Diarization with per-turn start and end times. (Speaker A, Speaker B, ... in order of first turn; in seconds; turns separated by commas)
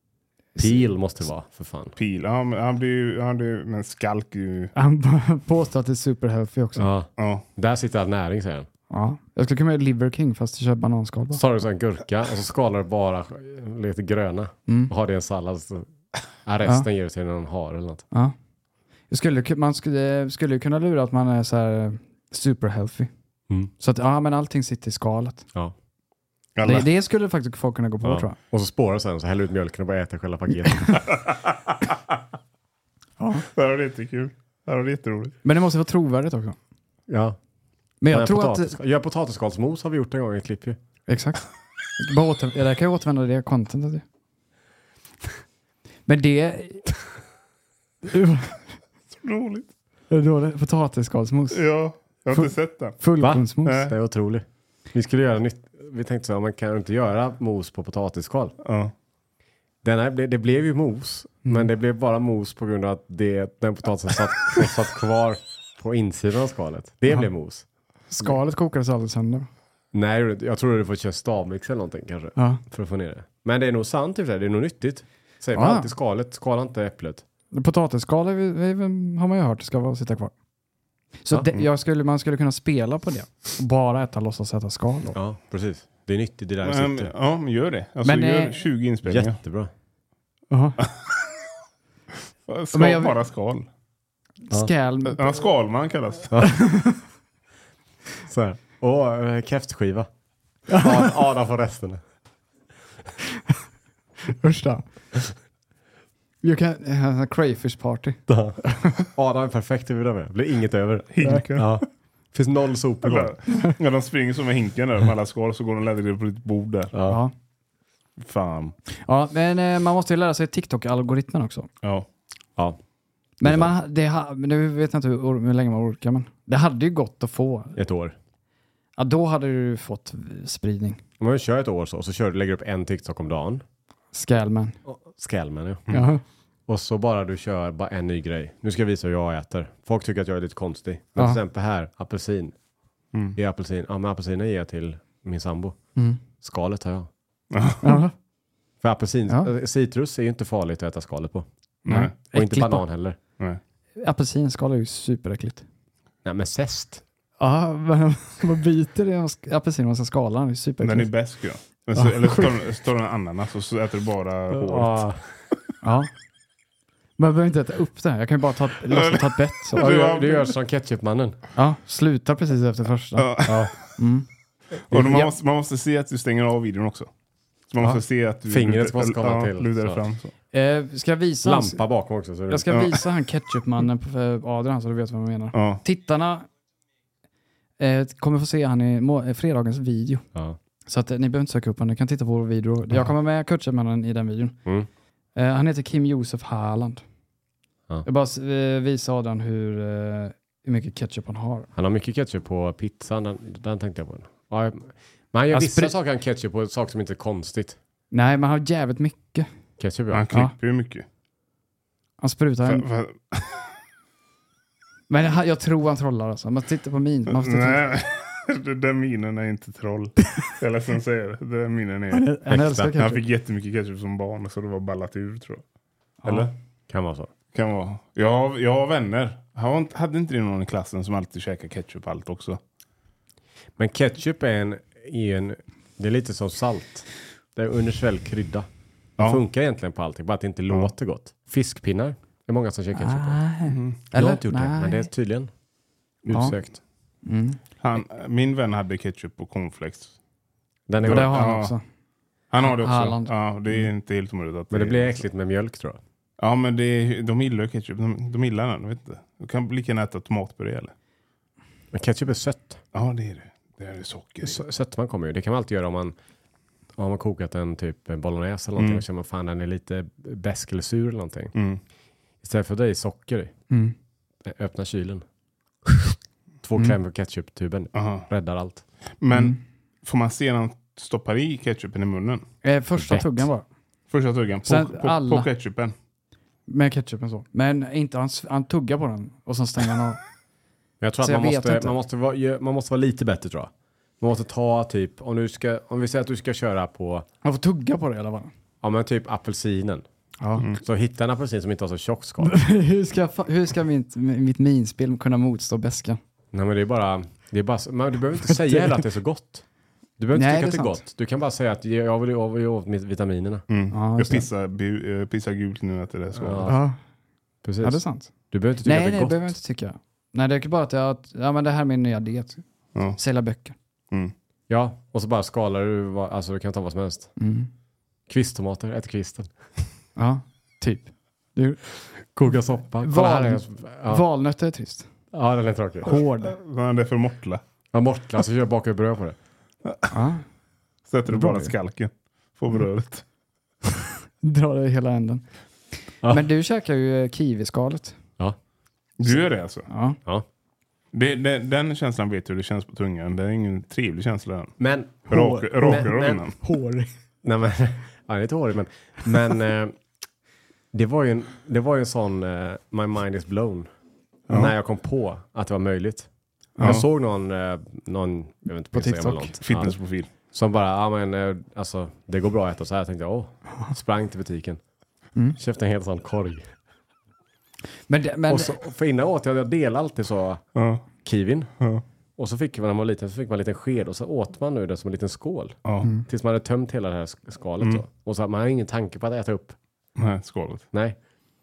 Speaker A: 0.6-0.8, Speaker B: 0.6-1.9, Speaker C: 1.9-4.7, Speaker A: 4.7-6.9, Speaker B: 6.8-8.7, Speaker C: 7.2-7.5, Speaker A: 8.9-11.4, Speaker B: 11.3-15.9, Speaker A: 14.7-14.9, Speaker B: 16.4-18.1, Speaker A: 19.1-23.1, Speaker A: 23.8-25.4, Speaker C: 26.6-26.9, Speaker A: 26.6-28.4, Speaker B: 28.0-31.1, Speaker A: 33.2-33.5, Speaker C: 33.5-35.4, Speaker A: 35.4-36.6, Speaker B: 37.1-37.4, Speaker A: 38.0-38.8, Speaker B: 38.1-40.8, Speaker A: 41.1-41.5, Speaker A: 42.0-44.0, Speaker A: 46.0-46.9, Speaker A: 48.0-48.6, Speaker C: 49.1-49.7, Speaker A: 50.1-51.6, Speaker C: 51.5-53.0, Speaker A: 52.3-53.9, Speaker B: 53.2-58.5, Speaker C: 53.6-53.9, Speaker C: 58.6-58.9, Speaker B: 59.8-67.6, Speaker A: 68.1-69.5, Speaker B: 69.9-77.2, Speaker A: 72.4-72.6, Speaker A: 75.5-75.9, Speaker A: 77.5-80.3, Speaker A: 81.2-85.2, Speaker B: 85.1-87.1, Speaker C: 86.6-89.4, Speaker A: 88.0-88.6, Speaker B: 89.0-89.7, Speaker A: 90.5-90.8, Speaker C: 92.5-93.7, Speaker A: 92.7-93.1, Speaker A: 94.5-95.2, Speaker C: 95.1-96.4, Speaker A: 96.4-97.0, Speaker B: 98.3-100.1, Speaker A: 100.7-101.0, Speaker B: 100.7-102.0, Speaker A: 104.3-104.9, Speaker A: 106.4-109.0, Speaker B: 108.3-113.3, Speaker C: 111.1-111.8, Speaker C: 113.0-116.9, Speaker B: 116.9-117.2, Speaker A: 117.1-117.3, Speaker C: 118.2-118.7, Speaker A: 119.0-121.7, Speaker A: 123.4-127.8, Speaker B: 123.4-123.7, Speaker B: 127.7-128.2, Speaker A: 129.0-131.0, Speaker B: 131.2-133.6, Speaker A: 134.1-134.8, Speaker B: 134.9-135.8, Speaker A: 135.9-136.2, Speaker B: 136.7-142.6, Speaker B: 143.3-145.8, Speaker B: 146.4-147.1, Speaker C: 147.5-148.0, Speaker A: 147.8-148.1, Speaker B: 148.8-151.5, Speaker C: 151.8-152.1, Speaker A: 151.9-152.8, Speaker B: 152.3-153.2, Speaker A: 154.0-155.6, Speaker B: 156.2-157.0, Speaker A: 157.4-161.1, Speaker C: 160.8-165.1, Speaker A: 162.0-162.5, Speaker B: 164.5-165.3, Speaker A: 165.8-166.1, Speaker A: 167.2-169.9, Speaker C: 168.9-170.5, Speaker B: 169.8-171.4, Speaker A: 171.6-174.3, Speaker C: 173.2-173.7, Speaker B: 173.5-173.7, Speaker A: 174.9-175.3, Speaker C: 174.9-177.1, Speaker C: 177.7-180.3, Speaker B: 178.5-180.0, Speaker A: 180.5-181.8, Speaker B: 181.4-183.0, Speaker A: 182.5-186.5, Speaker C: 182.7-183.0, Speaker C: 185.5-185.8, Speaker A: 187.8-190.2, Speaker A: 190.9-194.6, Speaker A: 195.3-197.0, Speaker A: 198.1-201.7, Speaker B: 201.7-207.8, Speaker A: 205.5-205.9, Speaker A: 208.1-209.5, Speaker B: 209.8-210.3, Speaker C: 210.1-211.1, Speaker A: 212.2-212.9, Speaker C: 212.7-213.7, Speaker A: 215.1-217.8, Speaker C: 217.3-222.3, Speaker A: 222.1-223.2, Speaker B: 222.5-222.9, Speaker C: 222.9-225.6, Speaker A: 226.2-226.5, Speaker C: 226.2-226.5, Speaker B: 226.9-227.3, Speaker C: 227.5-232.6, Speaker B: 233.8-238.7, Speaker B: 239.2-243.4, Speaker A: 242.9-245.1, Speaker C: 243.7-244.0, Speaker B: 244.1-245.5, Speaker B: 246.3-246.8, Speaker A: 247.2-247.6, Speaker C: 247.8-250.1, Speaker B: 250.9-251.5, Speaker C: 251.0-251.7, Speaker A: 251.0-251.8, Speaker C: 252.5-255.2, Speaker A: 252.6-253.8, Speaker B: 254.7-256.0, Speaker C: 256.4-260.9, Speaker B: 261.9-262.8, Speaker C: 262.9-264.6, Speaker B: 264.4-266.1, Speaker B: 266.9-271.5, Speaker C: 268.8-269.0, Speaker C: 271.6-271.8, Speaker B: 272.4-273.5, Speaker B: 274.4-275.2, Speaker B: 275.9-278.8, Speaker C: 277.9-278.3, Speaker C: 279.2-282.4, Speaker A: 282.6-283.6, Speaker B: 283.0-283.5, Speaker C: 284.1-285.9, Speaker A: 284.6-285.5, Speaker A: 286.7-290.2, Speaker B: 291.0-297.3, Speaker A: 291.2-291.9, Speaker A: 297.4-298.5, Speaker B: 298.8-300.1, Speaker A: 300.4-300.6, Speaker B: 300.7-302.6, Speaker A: 302.4-306.2, Speaker B: 306.5-309.6, Speaker A: 308.5-308.9, Speaker B: 310.2-313.6, Speaker A: 310.3-311.0, Speaker C: 313.7-316.7, Speaker A: 313.9-314.4, Speaker B: 316.4-316.8, Speaker A: 316.6-316.9, Speaker B: 317.6-319.5, Speaker A: 317.8-318.3, Speaker A: 318.8-322.6, Speaker A: 323.1-323.8, Speaker B: 324.7-327.3, Speaker A: 327.4-327.7, Speaker B: 328.3-329.5, Speaker A: 330.2-331.8, Speaker B: 332.3-334.2, Speaker A: 333.0-335.1, Speaker B: 335.3-336.1, Speaker A: 336.0-336.5, Speaker C: 336.1-337.6, Speaker B: 337.9-339.4, Speaker A: 340.1-340.4, Speaker C: 341.1-343.2, Speaker A: 341.3-341.7, Speaker A: 344.4-345.4, Speaker A: 346.3-348.2, Speaker C: 349.2-349.9, Speaker A: 349.9-350.2, Speaker C: 351.1-354.8, Speaker B: 354.8-356.5, Speaker C: 355.3-356.6, Speaker A: 355.4-356.0, Speaker A: 356.6-357.1, Speaker B: 357.4-360.0, Speaker B: 360.9-363.9, Speaker B: 364.5-369.9, Speaker A: 368.9-369.6, Speaker C: 369.6-370.3, Speaker B: 370.5-374.8, Speaker B: 375.6-376.7, Speaker A: 378.1-378.8, Speaker B: 378.5-380.6, Speaker C: 380.8-381.1, Speaker B: 381.2-381.7, Speaker B: 382.4-389.8, Speaker C: 390.2-390.8